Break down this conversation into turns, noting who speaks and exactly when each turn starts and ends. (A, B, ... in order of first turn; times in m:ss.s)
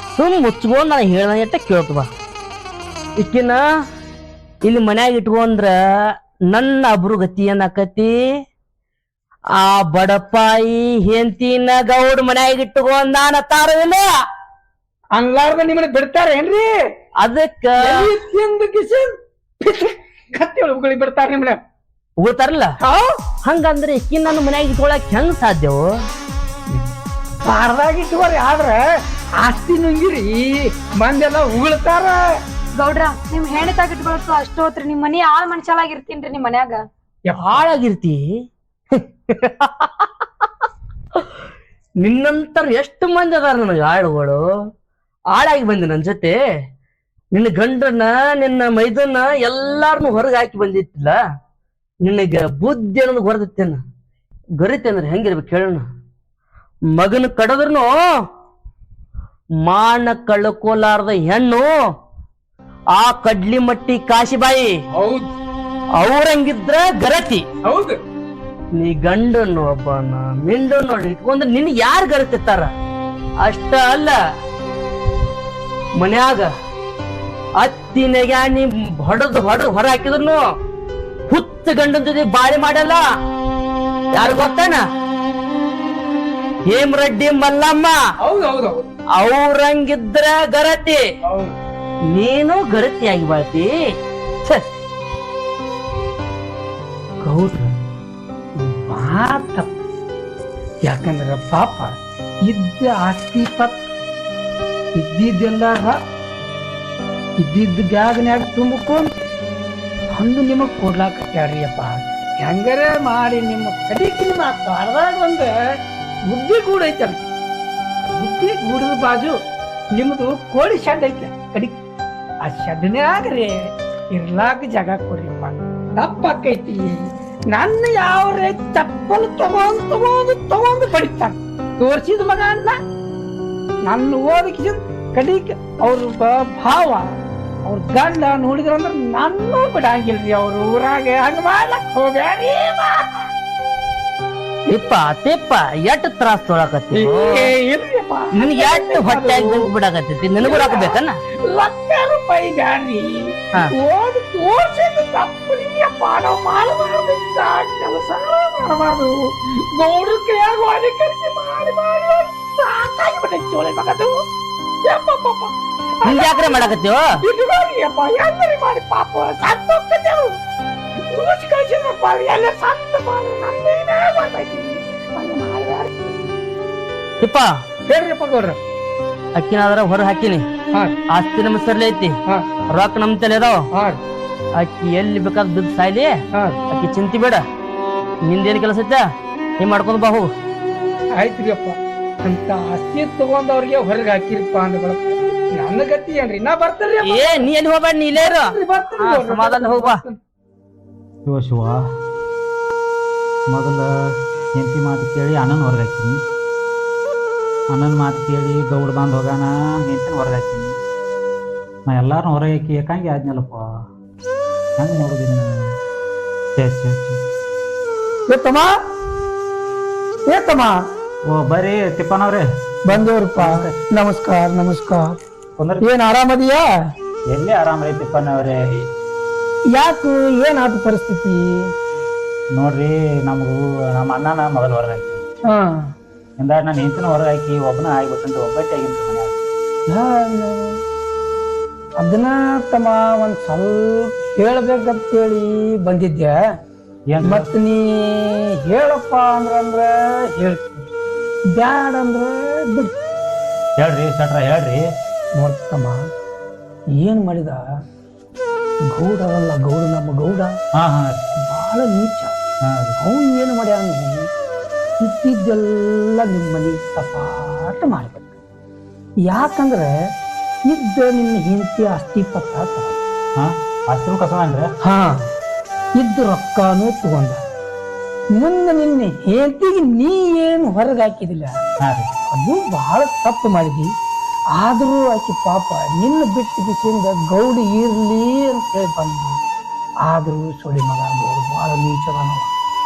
0:00.2-0:02.1 A
0:03.2-0:03.6 A
0:04.6-0:08.2 A
0:09.6-0:14.2 A
0:15.1-0:16.7 B
0:17.2-0:18.0 A
0:17.8-0:21.6 B
0:22.2-0:22.7 A
0:22.8-0:23.2 B
0:23.4-0:25.9 A
0:27.4-0:28.8 B
0:29.4-0:32.2 B
0:32.8-0:36.8 C
0:37.3-0:37.6 B
0:37.4-0:38.3 A
0:38.9-0:40.2 A
0:42.0-0:44.4 A
0:45.3-0:46.4 A
0:47.3-0:51.2 A
0:52.0-0:53.8 A
0:54.6-0:55.8 A
0:56.9-0:58.0 A
0:59.6-1:01.8 A
1:02.9-1:04.8 A
1:04.9-1:05.3 B
1:06.0-1:07.4 A
1:07.6-1:08.0 B
1:08.8-1:12.7 A
1:13.4-1:14.2 A
1:16.0-1:16.5 A
1:17.6-1:20.4 A
1:21.3-1:23.0 A
1:24.1-1:24.8 A
1:26.7-1:28.0 A
1:28.2-1:28.9 B
1:29.2-1:31.0 A
1:31.3-1:31.6 B
1:32.1-1:33.7 A
1:37.2-1:37.7 B
1:38.6-1:39.7 B
1:40.8-1:43.8 B
1:45.0-1:46.0 B
1:47.4-1:49.1 B
1:50.1-1:55.5 B
1:56.3-1:57.2 B
1:58.1-1:59.4 B
1:59.9-2:01.8 B
2:02.4-2:12.8 B
2:13.9-2:17.1 B
2:17.7-2:23.2 B
2:24.7-2:27.5 A
2:26.9-2:29.7 B
2:28.4-2:31.2 A
2:30.4-2:44.2 B
2:44.8-2:50.4 B
2:46.0-2:47.2 A
2:50.9-2:56.3 B
2:57.2-2:57.6 A
2:57.9-2:58.6 B
2:59.4-3:00.5 A
3:01.1-3:02.2 A
3:02.7-3:03.7 A
3:03.7-3:04.0 B
3:04.6-3:07.4 A
3:06.3-3:06.6 B
3:08.3-3:09.1 A
3:09.6-3:10.3 A
3:11.2-3:17.5 B
3:17.0-3:20.0 A
3:18.5-3:20.2 B
3:21.3-3:21.8 D
3:23.5-3:26.2 D
3:27.7-3:30.7 D
3:31.9-3:33.8 D
3:34.8-3:35.8 D
3:36.6-3:37.2 D
3:38.3-3:38.7 B
3:40.3-3:40.8 B
3:41.3-3:43.8 D
3:42.9-3:45.2 B
3:45.6-3:45.8 D
3:45.8-3:46.7 B
3:47.3-3:48.8 D
3:49.7-3:51.4 B
3:52.6-3:55.2 D
3:55.5-3:55.9 B
3:56.4-3:59.4 D
3:59.9-4:00.8 B
4:02.0-4:06.4 B
4:07.1-4:07.5 D
4:07.2-4:10.9 B
4:11.6-4:12.9 B
4:13.8-4:14.9 D
4:15.4-4:16.0 B
4:17.0-4:17.7 B
4:18.9-4:20.6 B
4:20.8-4:21.2 D
4:21.4-4:22.4 B
4:22.6-4:23.0 D
4:23.0-4:24.3 B
4:25.0-4:28.4 B
4:29.3-4:29.9 B
4:30.7-4:33.0 B
4:33.4-4:34.7 D
4:34.8-4:35.2 B
4:36.0-4:37.4 B
4:38.4-4:41.6 B
4:41.8-4:42.1 D
4:42.3-4:43.9 B
4:44.5-4:49.4 B
4:50.0-4:52.5 B